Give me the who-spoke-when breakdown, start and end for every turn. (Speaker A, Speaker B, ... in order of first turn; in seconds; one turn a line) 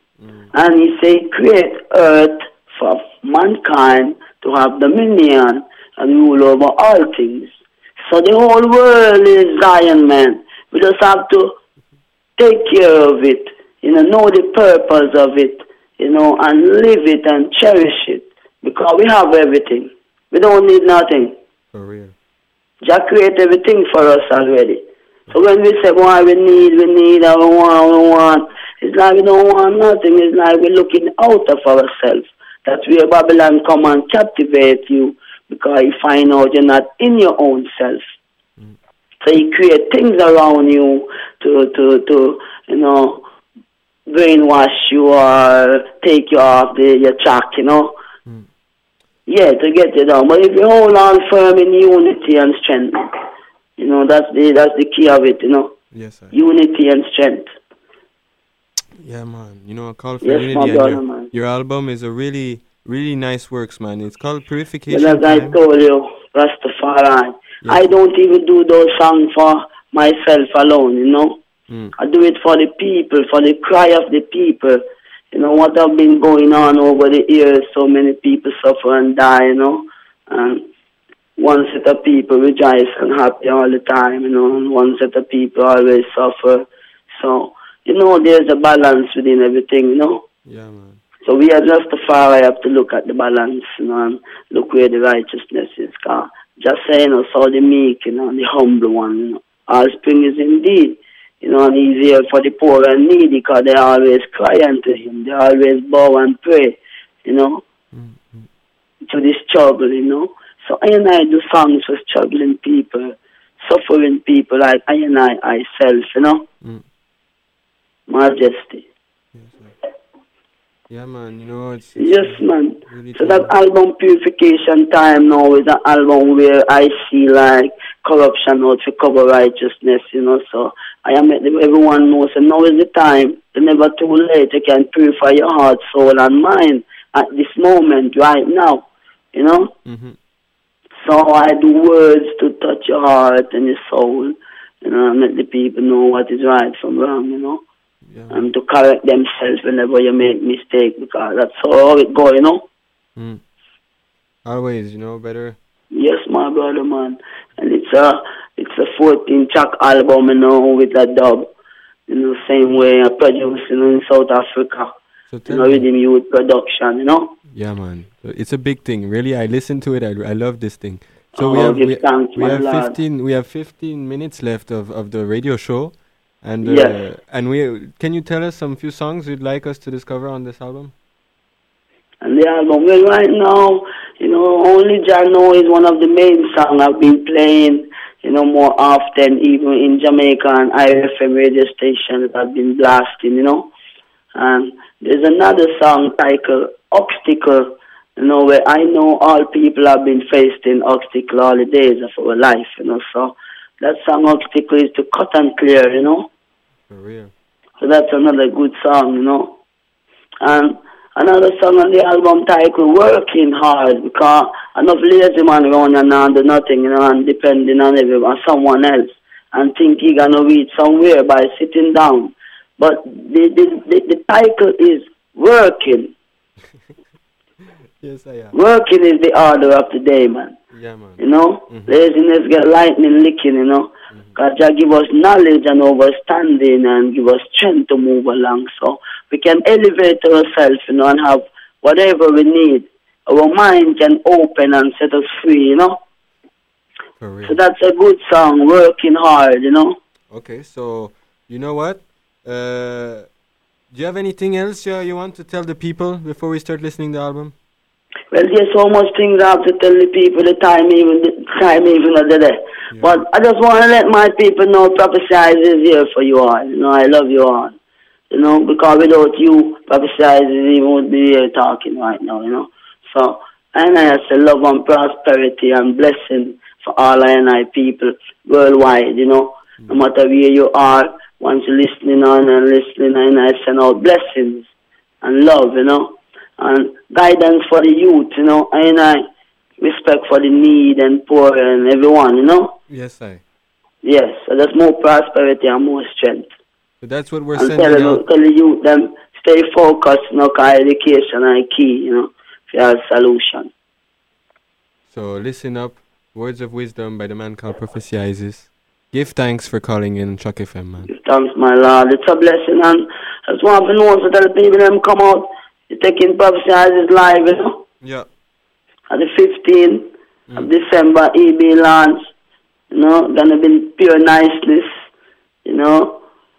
Speaker A: 0.2-0.5
Speaker B: 0.5-7.5
Speaker B: 8.1-11.5
Speaker B: 12.4-21.4
Speaker A: 21.7-22.1
Speaker B: 22.8-38.0
Speaker B: 39.2-43.2
Speaker B: 44.1-47.9
Speaker B: 49.3-53.0
Speaker B: 53.8-55.8
Speaker A: 55.9-56.3
Speaker B: 56.3-57.5
Speaker A: 59.0-65.6
Speaker B: 60.2-61.3
Speaker B: 64.9-71.4
Speaker B: 72.0-74.8
Speaker B: 75.3-80.6
Speaker B: 81.4-86.7
Speaker B: 87.2-90.2
Speaker A: 90.5-91.0
Speaker B: 91.2-107.6
Speaker A: 107.9-108.5
Speaker B: 109.0-116.4
Speaker B: 118.1-118.8
Speaker A: 119.3-119.7
Speaker A: 120.9-123.5
Speaker B: 122.0-139.7
Speaker A: 139.8-140.2
Speaker B: 141.0-147.6
Speaker A: 148.1-148.4
Speaker B: 148.3-152.6
Speaker A: 153.2-153.4
Speaker A: 154.4-155.6
Speaker B: 155.9-161.5
Speaker B: 162.1-164.9
Speaker A: 165.3-165.8
Speaker B: 165.5-167.3
Speaker A: 167.5-180.9
Speaker B: 171.3-173.0
Speaker B: 176.6-177.0
Speaker B: 182.2-193.7
Speaker B: 194.3-206.3
Speaker A: 206.9-207.3
Speaker B: 207.8-209.5
Speaker B: 210.4-226.1
Speaker A: 228.0-228.6
Speaker B: 228.5-230.6
Speaker A: 230.7-231.9
Speaker B: 231.2-246.0
Speaker A: 247.2-247.5
Speaker B: 247.4-250.0
Speaker A: 250.3-253.3
Speaker A: 253.9-257.5
Speaker B: 258.3-267.8
Speaker A: 262.9-263.2
Speaker B: 268.3-284.7
Speaker B: 285.2-289.2
Speaker B: 289.8-292.7
Speaker A: 292.9-293.4
Speaker B: 294.0-296.5
Speaker A: 297.0-298.2
Speaker B: 297.6-303.7
Speaker A: 305.1-311.1
Speaker B: 311.1-317.8
Speaker A: 318.0-318.3
Speaker B: 319.1-322.3
Speaker B: 322.9-324.9
Speaker B: 325.6-326.2